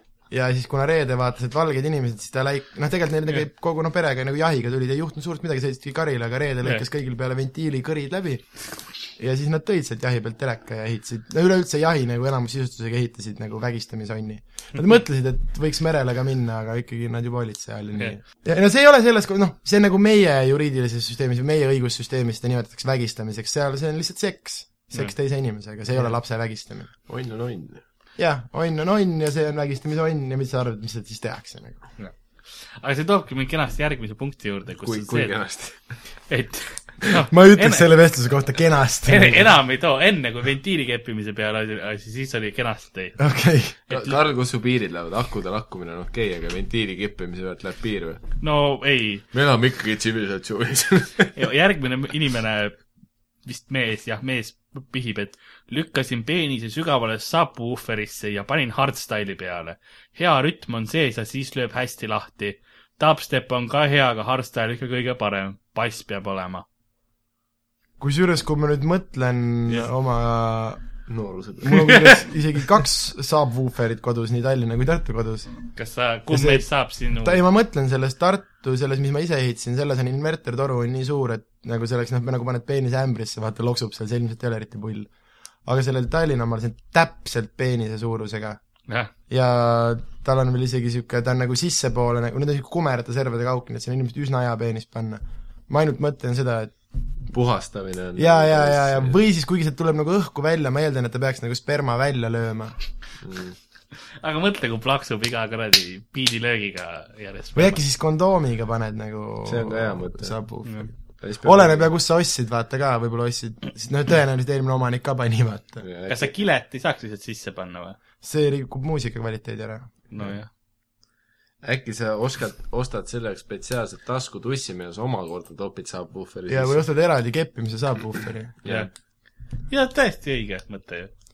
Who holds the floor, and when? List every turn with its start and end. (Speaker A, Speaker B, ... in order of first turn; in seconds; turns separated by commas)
Speaker A: 0.3-26.9, Speaker B: 27.1-27.8, Speaker A: 28.2-31.8, Speaker C: 32.8-35.3, Speaker B: 34.8-36.0, Speaker C: 36.3-37.9, Speaker A: 37.3-39.5, Speaker C: 39.0-43.2, Speaker A: 43.2-43.8, Speaker B: 43.9-48.2, Speaker C: 48.4-49.2, Speaker B: 49.3-51.3, Speaker C: 51.3-52.8, Speaker C: 53.4-66.6, Speaker A: 68.0-70.8, Speaker B: 71.1-71.9, Speaker A: 71.6-75.5, Speaker C: 75.7-77.4, Speaker A: 76.3-85.1, Speaker A: 85.6-88.6, Speaker A: 89.3-96.7, Speaker B: 97.3-99.2, Speaker A: 98.2-102.8, Speaker B: 103.2-103.6, Speaker C: 104.2-107.8, Speaker A: 107.5-115.8, Speaker B: 109.5-110.4, Speaker B: 111.2-111.9, Speaker B: 115.8-116.3, Speaker C: 116.1-118.0, Speaker A: 118.2-119.9, Speaker C: 120.1-120.5, Speaker B: 121.6-126.8, Speaker A: 126.5-128.6, Speaker B: 128.6-128.9, Speaker C: 129.7-131.1